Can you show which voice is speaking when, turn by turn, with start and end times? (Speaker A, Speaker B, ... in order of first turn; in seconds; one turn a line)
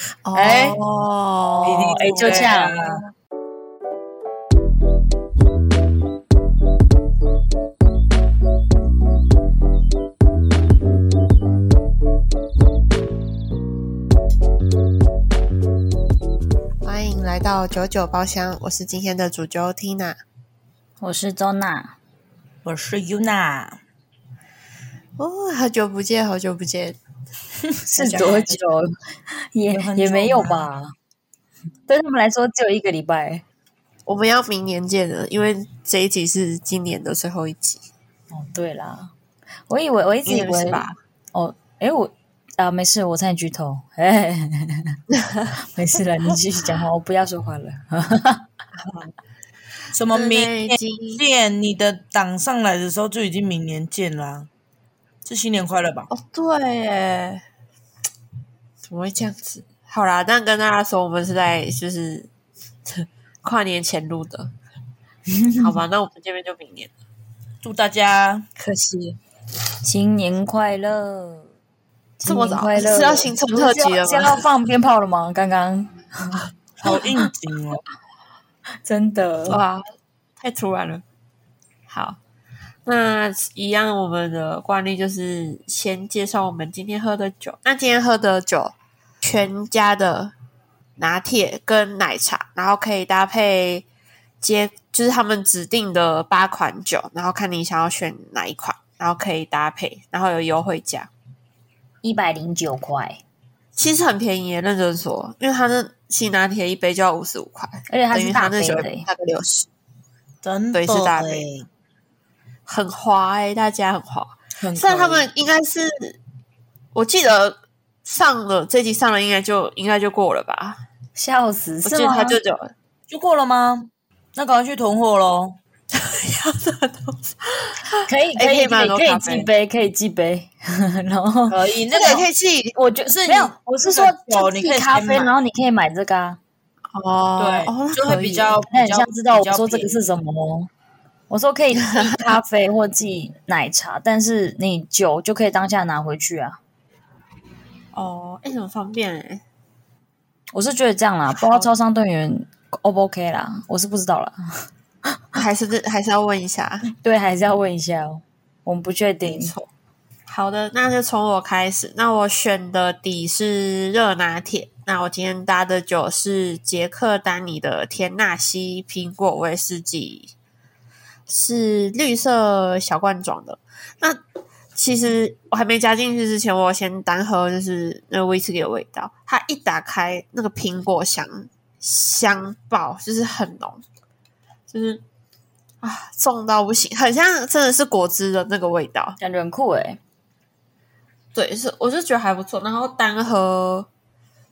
Speaker A: 0.2-2.9
Speaker B: 0.4-0.7
Speaker B: 1.6-2.8
Speaker C: 1.6-3.0
Speaker A: 16.8-20.2
Speaker B: 21.0-22.0
Speaker C: 22.6-23.8
Speaker A: 25.2-27.0
Speaker B: 27.9-30.9
Speaker C: 28.0-28.6
Speaker A: 28.1-28.5
Speaker C: 29.7-30.7
Speaker B: 31.9-33.4
Speaker A: 34.1-37.8
Speaker B: 38.3-39.1
Speaker B: 39.7-45.0
Speaker A: 40.3-41.0
Speaker A: 45.2-45.5
Speaker B: 45.7-48.4
Speaker A: 48.8-49.1
Speaker C: 49.9-54.5
Speaker A: 50.1-51.2
Speaker C: 55.2-56.1
Speaker A: 56.1-57.4
Speaker A: 58.9-62.3
Speaker A: 62.9-64.5
Speaker B: 65.3-65.8
Speaker A: 65.6-66.9
Speaker C: 67.6-68.5
Speaker A: 68.6-69.2
Speaker B: 69.8-71.5
Speaker B: 72.2-76.4
Speaker A: 72.2-74.5
Speaker C: 76.8-77.8
Speaker B: 78.8-79.6
Speaker A: 79.5-79.8
Speaker A: 80.4-81.0
Speaker A: 81.9-82.2
Speaker A: 82.9-90.3
Speaker A: 91.0-93.8
Speaker A: 94.4-101.1
Speaker B: 102.0-103.2
Speaker A: 103.8-109.7
Speaker B: 107.9-109.1
Speaker C: 110.4-111.7
Speaker A: 110.7-111.5
Speaker A: 112.7-116.2
Speaker C: 114.6-115.2
Speaker A: 116.9-120.8
Speaker B: 121.2-122.4
Speaker A: 121.8-122.7
Speaker C: 123.1-125.6
Speaker A: 125.9-129.5
Speaker B: 128.1-131.6
Speaker C: 131.5-132.2
Speaker A: 131.9-132.8
Speaker B: 132.8-136.4
Speaker C: 133.1-135.3
Speaker A: 136.9-138.6
Speaker C: 137.4-140.0
Speaker B: 138.7-140.7
Speaker B: 141.3-146.6
Speaker A: 142.0-142.3
Speaker A: 147.9-149.4
Speaker B: 150.5-154.4
Speaker A: 151.4-151.7
Speaker A: 155.4-156.8
Speaker B: 156.9-159.5
Speaker A: 159.2-159.7
Speaker A: 160.3-170.3
Speaker A: 171.3-174.2
Speaker A: 174.8-183.8
Speaker A: 184.7-185.0
Speaker A: 185.8-189.2
Speaker B: 189.2-190.0
Speaker A: 191.3-193.9